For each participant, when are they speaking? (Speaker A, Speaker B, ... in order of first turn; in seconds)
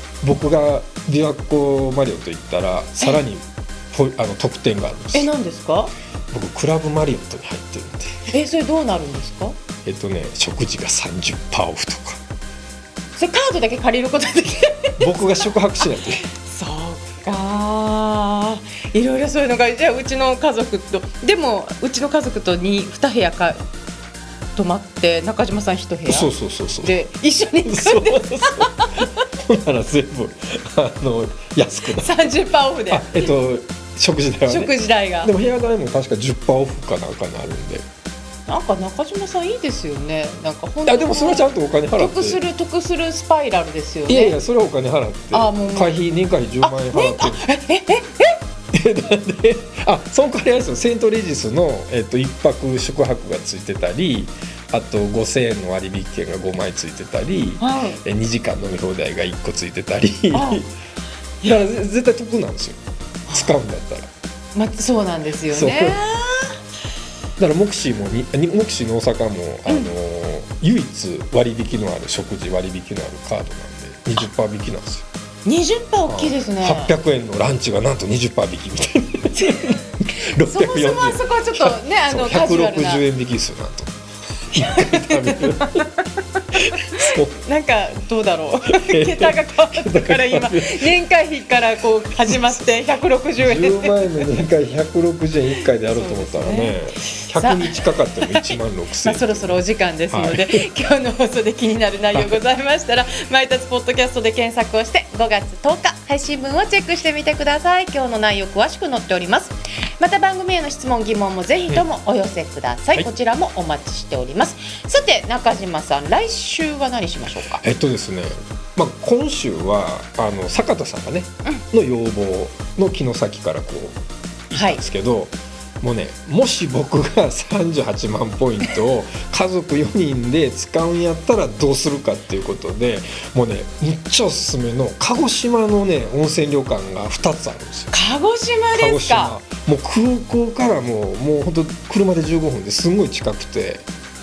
Speaker A: 0.2-5.3, 6.3-8.3, 9.8-12.2, 15.0-16.2, 26.1-27.0, 27.6-32.3, 32.9-37.9, 40.9-42.4, 44.1-47.5, 48.7-60.7, 61.4-62.8, 63.3-64.1, 65.5-66.0, 67.4-75.1, 76.1-83.9, 84.5-85.8, 86.5-87.4, 88.7-91.0, 92.3-92.6, 93.4-100.7, 102.1-102.4, 117.6-124.0, 124.5-137.9, 138.7-143.9
Speaker B: 5.1-5.9, 8.3-9.6, 13.2-15.0, 15.8-23.6, 24.6-29.2, 31.9-33.4, 34.5-35.3, 38.5-44.4, 45.3-46.0, 46.6-48.4, 57.6-58.0, 60.3-60.6, 63.3-63.6, 64.5-66.6, 69.7-69.9, 75.5-76.9, 79.3-83.0, 84.5-94.3, 95.9-117.6, 124.5-124.8, 137.9-139.4